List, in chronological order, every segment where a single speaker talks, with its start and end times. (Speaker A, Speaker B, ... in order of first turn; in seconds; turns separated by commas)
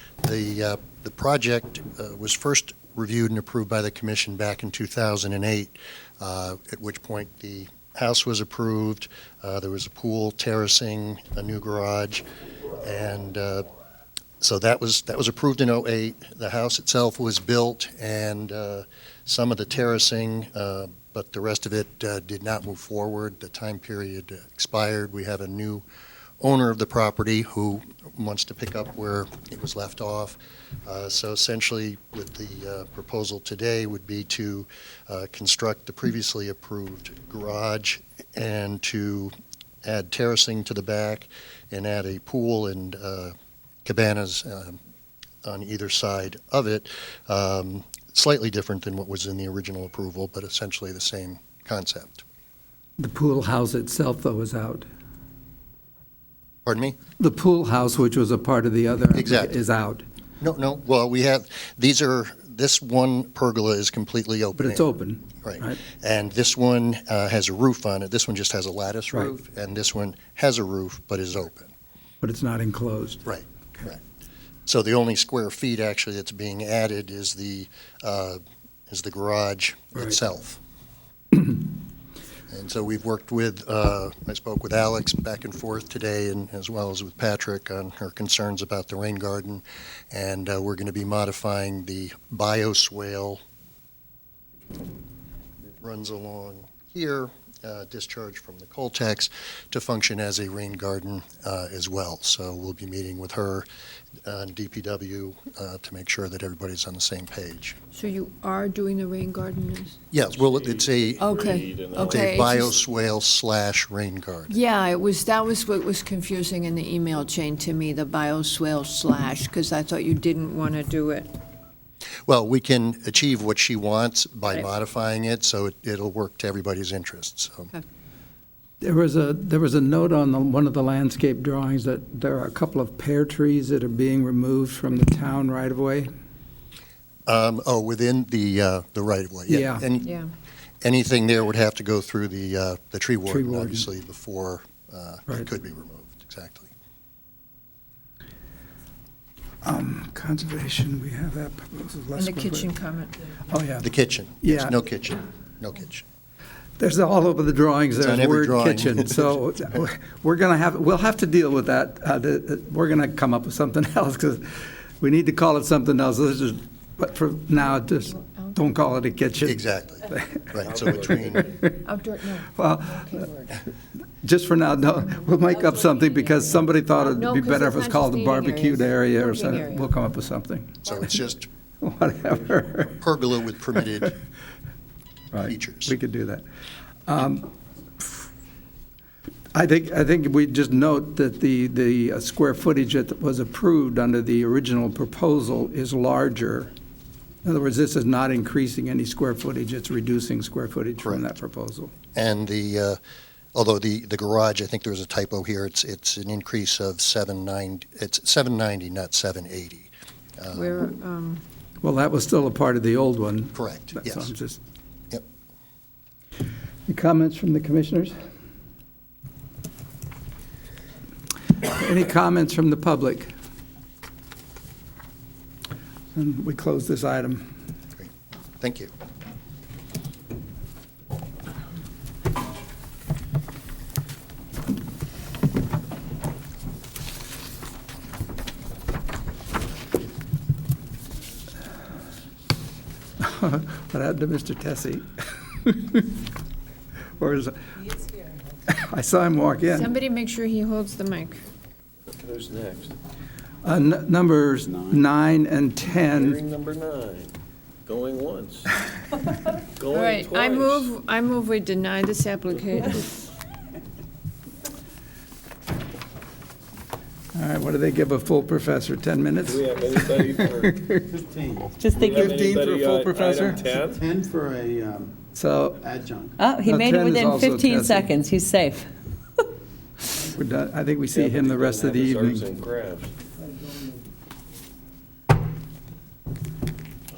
Speaker A: 0.2-12.2, Speaker A: 12.8-13.7, Speaker A: 14.4-25.8, Speaker A: 26.4-39.3, Speaker A: 39.8-44.8, Speaker A: 45.4-52.2, Speaker B: 53.0-54.8, Speaker A: 56.6-57.0, Speaker B: 57.2-60.0, Speaker A: 59.1-59.6, Speaker A: 60.4-64.9, Speaker B: 64.6-65.8, Speaker A: 65.4-71.7, Speaker B: 72.2-73.2, Speaker A: 73.2-74.0, Speaker A: 74.7-80.6, Speaker A: 82.5-93.4, Speaker A: 95.8-103.7, Speaker A: 104.2-107.8, Speaker C: 107.9-110.0, Speaker A: 110.1-111.3, Speaker D: 110.2-112.5, Speaker C: 111.2-112.7, Speaker A: 112.0-114.6, Speaker C: 114.5-121.3, Speaker A: 122.3-127.7, Speaker B: 128.8-136.1, Speaker A: 137.3-140.2, Speaker B: 139.5-139.8, Speaker A: 140.8-146.7, Speaker B: 143.3-143.8, Speaker B: 149.6-152.7, Speaker C: 152.2-153.2, Speaker B: 153.5-153.9, Speaker A: 153.8-156.0, Speaker B: 154.4-154.7, Speaker B: 156.8-171.8, Speaker A: 158.0-159.4, Speaker C: 167.6-168.6, Speaker A: 169.4-171.4, Speaker D: 170.6-171.5, Speaker C: 171.8-173.6, Speaker B: 172.5-173.2, Speaker B: 174.2-180.9, Speaker E: 175.9-176.6, Speaker C: 177.0-179.9, Speaker A: 180.8-181.5, Speaker B: 181.8-182.9, Speaker A: 183.0-184.2, Speaker B: 185.3-186.4, Speaker A: 185.4-185.9, Speaker B: 187.1-187.5, Speaker B: 189.5-196.7, Speaker B: 197.4-201.9, Speaker A: 202.1-203.0, Speaker A: 203.5-210.8, Speaker C: 210.5-211.4, Speaker B: 211.8-214.6, Speaker A: 213.5-214.3, Speaker B: 216.9-218.1, Speaker B: 221.6-223.3, Speaker B: 226.1-227.4, Speaker A: 228.6-228.9, Speaker B: 243.2-246.2, Speaker B: 247.2-247.6, Speaker B: 248.7-249.9, Speaker C: 249.7-251.4, Speaker D: 252.1-252.9, Speaker B: 253.6-256.4, Speaker F: 254.7-255.0, Speaker D: 256.0-257.3, Speaker D: 257.9-258.7, Speaker D: 259.8-260.9, Speaker C: 259.9-263.1, Speaker B: 267.3-271.0, Speaker D: 269.4-270.9, Speaker F: 271.0-272.4, Speaker E: 271.8-272.2, Speaker D: 272.0-274.0, Speaker B: 272.0-273.6, Speaker F: 273.5-275.1, Speaker B: 275.4-275.8, Speaker F: 275.8-276.3, Speaker E: 276.4-278.9, Speaker B: 276.6-278.1, Speaker B: 280.2-282.5, Speaker D: 281.1-283.1